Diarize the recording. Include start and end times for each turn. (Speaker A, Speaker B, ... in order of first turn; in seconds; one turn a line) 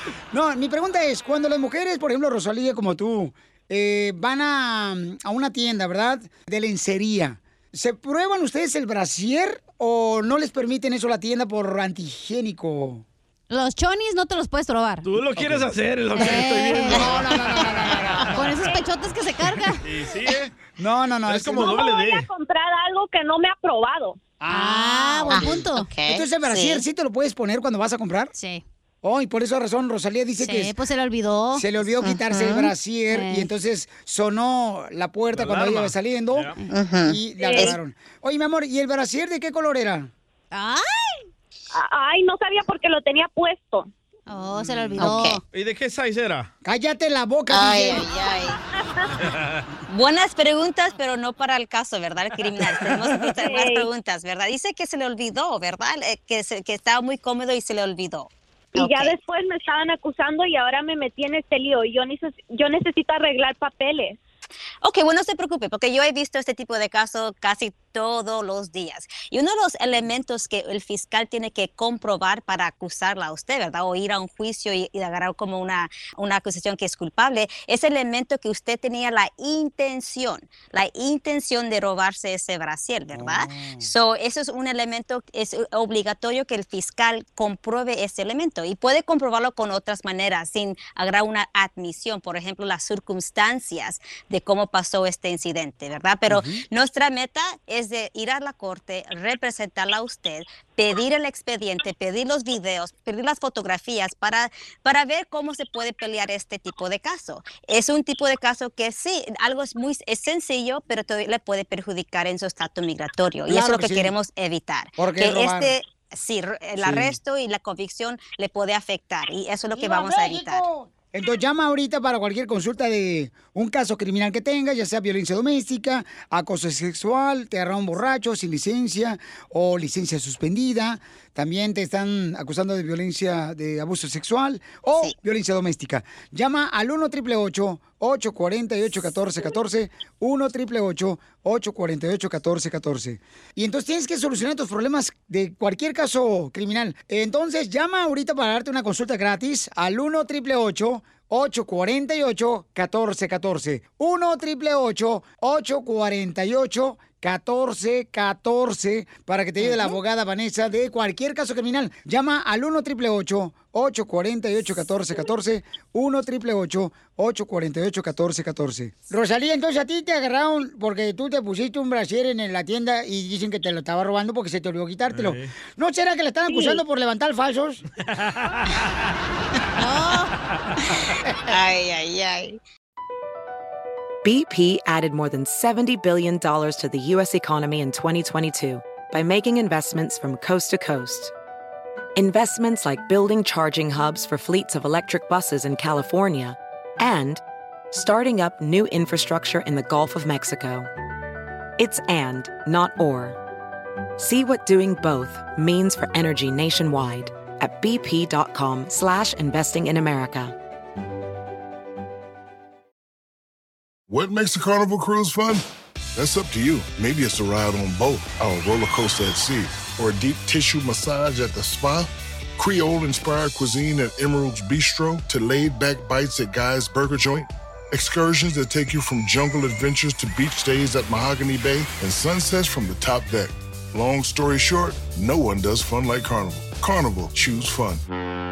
Speaker A: 0.3-13.0
Speaker B: 13.5-15.0
Speaker C: 15.0-17.2
Speaker A: 15.3-15.7
Speaker B: 16.1-19.8
Speaker A: 16.4-18.5
Speaker C: 19.9-20.5
Speaker A: 20.8-21.8
Speaker C: 21.2-22.3
Speaker D: 21.6-24.2
Speaker A: 24.4-28.3
Speaker B: 24.5-25.9
Speaker E: 25.3-26.8
Speaker B: 28.3-28.6
Speaker A: 29.0-30.7
Speaker B: 30.4-31.6
Speaker A: 31.5-36.5
Speaker E: 32.3-32.6
Speaker B: 33.1-33.5
Speaker C: 35.4-36.5
Speaker A: 37.0-40.1
Speaker D: 37.4-37.8
Speaker B: 40.5-41.2
Speaker D: 41.7-43.9
Speaker B: 44.3-45.4
Speaker E: 45.0-45.4
Speaker C: 45.5-46.5
Speaker A: 46.6-48.0
Speaker E: 47.5-48.6
Speaker C: 49.2-49.6
Speaker E: 49.9-59.1
Speaker D: 53.4-53.9
Speaker D: 58.8-64.2
Speaker E: 64.8-120.6
Speaker A: 83.1-83.9
Speaker A: 96.3-96.6
Speaker A: 113.5-114.1
Speaker A: 115.0-115.7
Speaker A: 116.8-117.2
Speaker A: 119.7-177.8
Speaker E: 159.6-159.9
Speaker C: 175.1-175.5
Speaker B: 179.8-180.3
Speaker E: 181.5-182.6
Speaker F: 184.2-191.3
Speaker F: 192.2-200.9
Speaker F: 201.8-203.4
Speaker F: 204.2-210.5
Speaker G: 214.1-238.0